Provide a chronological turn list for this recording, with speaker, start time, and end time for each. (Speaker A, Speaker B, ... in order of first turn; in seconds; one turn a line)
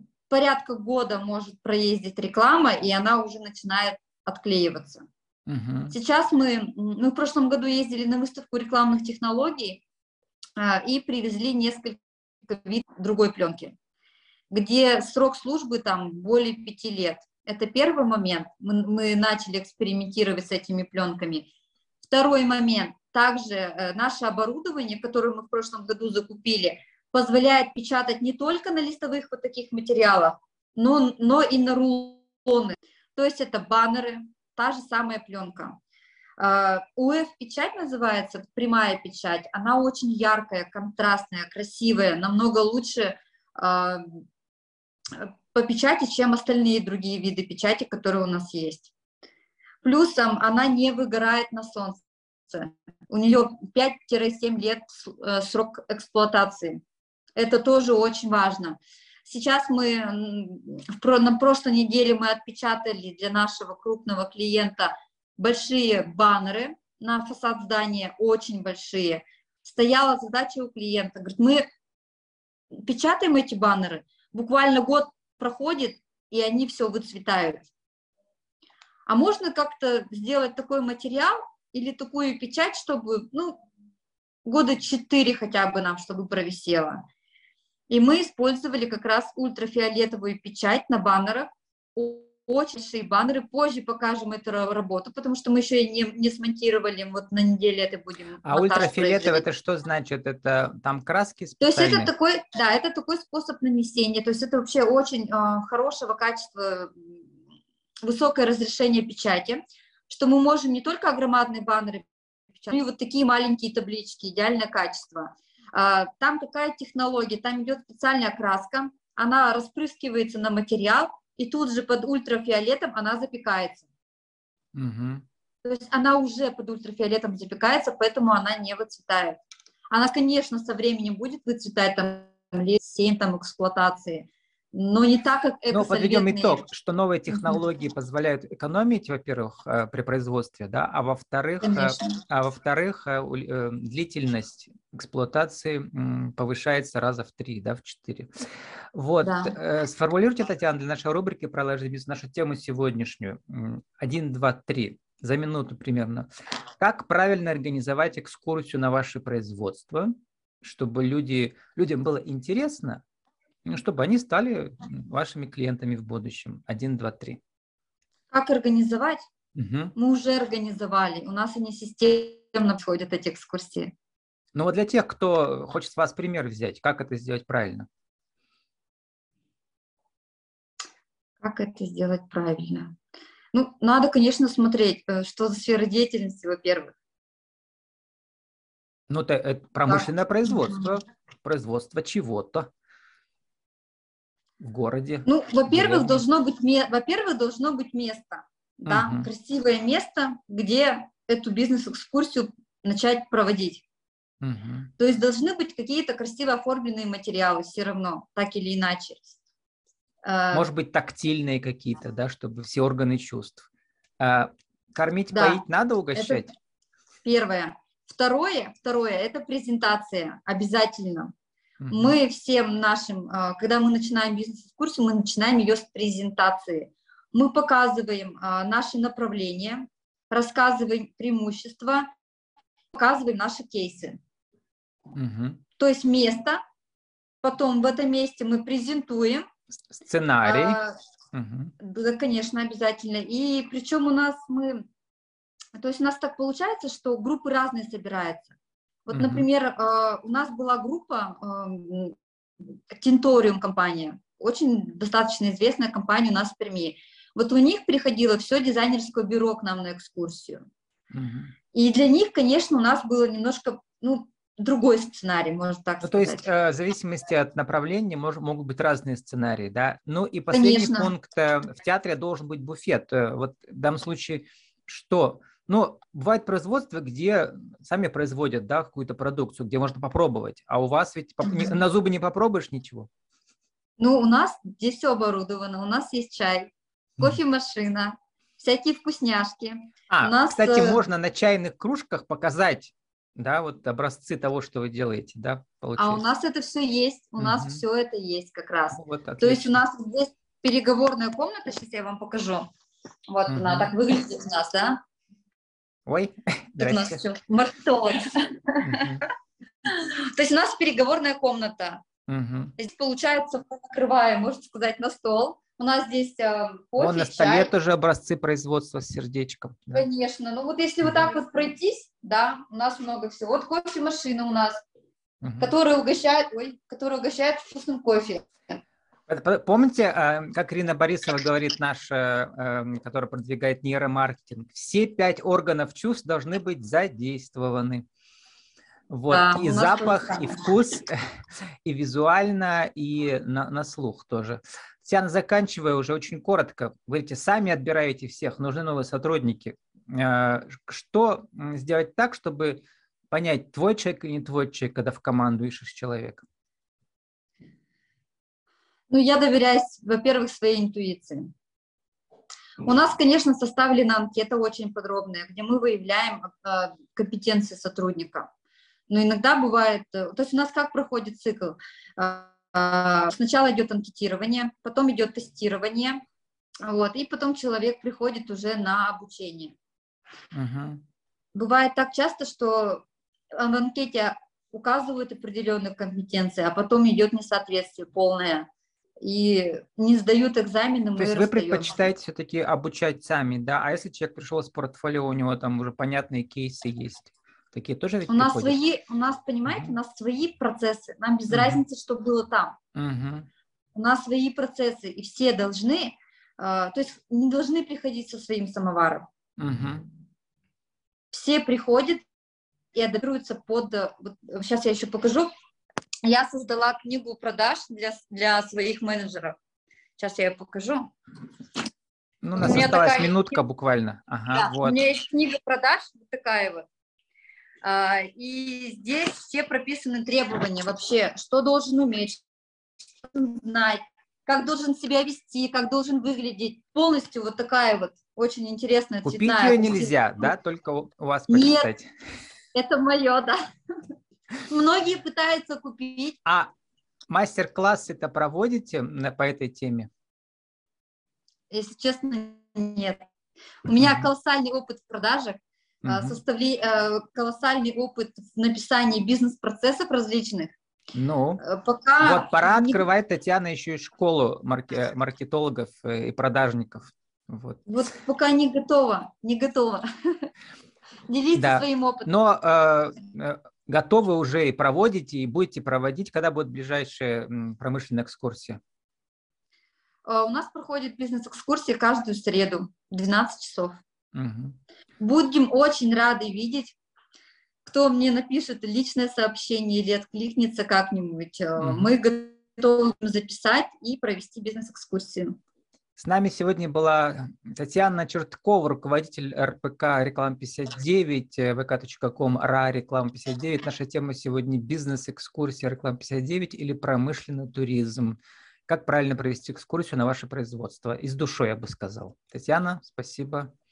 Speaker A: 0.3-5.0
Speaker B: 5.5-5.9
Speaker A: 5.9-9.8
Speaker A: 10.6-13.7
Speaker A: 14.5-21.5
Speaker A: 22.1-35.8
Speaker A: 36.4-44.2
Speaker A: 45.1-48.9
Speaker A: 49.8-56.8
Speaker A: 57.4-71.6
Speaker A: 72.7-77.7
Speaker A: 79.1-83.6
Speaker A: 84.5-87.0
Speaker A: 87.9-99.4
Speaker B: 98.4-102.1
Speaker A: 101.6-107.2
Speaker A: 108.0-123.8
Speaker B: 124.7-125.2
Speaker A: 125.6-129.4
Speaker A: 129.9-136.6
Speaker B: 135.7-148.3
Speaker A: 137.3-137.6
Speaker A: 141.6-142.2
Speaker B: 148.9-156.3
Speaker A: 149.2-149.6
Speaker B: 156.8-163.0
Speaker B: 163.7-167.4
Speaker A: 168.3-169.2
Speaker B: 169.6-169.9
Speaker A: 169.9-173.9
Speaker B: 174.5-177.9
Speaker A: 181.4-182.9
Speaker A: 183.5-186.9
Speaker B: 189.1-192.7
Speaker A: 189.9-190.9
Speaker B: 194.6-196.2
Speaker A: 195.2-203.8
Speaker B: 198.8-199.3
Speaker B: 204.4-204.9
Speaker A: 205.0-209.4
Speaker A: 210.2-210.7
Speaker B: 210.5-213.7
Speaker B: 214.2-216.5
Speaker A: 215.3-215.6
Speaker A: 216.1-216.5
Speaker A: 217.2-221.3
Speaker B: 221.8-222.2
Speaker A: 221.9-232.1
Speaker A: 232.9-234.2
Speaker B: 235.1-235.6
Speaker A: 235.8-236.6
Speaker A: 237.4-239.4
Speaker B: 239.9-240.8
Speaker A: 240.4-240.9
Speaker B: 241.3-241.7
Speaker A: 241.8-244.8
Speaker A: 245.8-248.5
Speaker A: 249.1-260.6
Speaker B: 249.1-249.4
Speaker B: 261.1-261.5
Speaker A: 261.7-266.4
Speaker B: 266.0-283.1
Speaker A: 270.5-271.1
Speaker A: 284.0-291.0
Speaker B: 290.1-296.2
Speaker A: 296.0-302.7
Speaker B: 297.4-297.8
Speaker B: 298.9-299.8
Speaker A: 303.3-305.0
Speaker B: 303.5-303.9
Speaker B: 306.1-307.2
Speaker A: 306.8-309.2
Speaker B: 308.8-309.2
Speaker A: 309.9-312.0
Speaker B: 312.3-312.7
Speaker A: 312.8-317.7
Speaker B: 317.0-320.1
Speaker A: 319.9-324.8
Speaker B: 321.0-321.3
Speaker B: 325.4-325.7
Speaker A: 325.6-328.8
Speaker B: 329.3-338.0
Speaker B: 339.1-341.2
Speaker A: 339.3-340.7
Speaker B: 341.8-356.4
Speaker A: 359.1-361.5
Speaker A: 362.8-368.5
Speaker A: 369.1-376.2
Speaker A: 376.9-379.7
Speaker B: 380.5-381.0
Speaker A: 381.5-383.0
Speaker A: 383.6-388.7
Speaker A: 389.2-391.9
Speaker B: 391.2-398.8
Speaker A: 398.3-402.8
Speaker B: 399.7-399.9
Speaker B: 401.5-401.8
Speaker B: 402.9-403.5
Speaker A: 403.9-409.2
Speaker B: 409.6-410.1
Speaker A: 411.3-412.2
Speaker A: 412.9-415.5
Speaker A: 416.2-419.6
Speaker A: 420.2-421.1
Speaker B: 422.4-425.0
Speaker A: 422.6-423.6
Speaker A: 424.5-426.9
Speaker A: 427.8-432.4
Speaker A: 433.2-440.5
Speaker B: 439.2-442.1
Speaker A: 441.5-441.9
Speaker A: 442.7-443.6
Speaker A: 444.7-446.4
Speaker B: 446.4-446.7
Speaker B: 447.3-450.1
Speaker A: 451.7-453.2
Speaker A: 453.9-460.7
Speaker B: 454.0-454.3
Speaker B: 456.0-456.4
Speaker B: 461.1-461.6
Speaker A: 461.6-463.0
Speaker B: 462.2-467.9
Speaker A: 467.9-470.4
Speaker A: 471.3-472.3
Speaker B: 471.5-478.8
Speaker A: 480.2-484.0
Speaker B: 484.3-484.8
Speaker A: 485.2-486.9
Speaker A: 487.8-495.6
Speaker B: 491.8-492.1
Speaker B: 496.2-513.7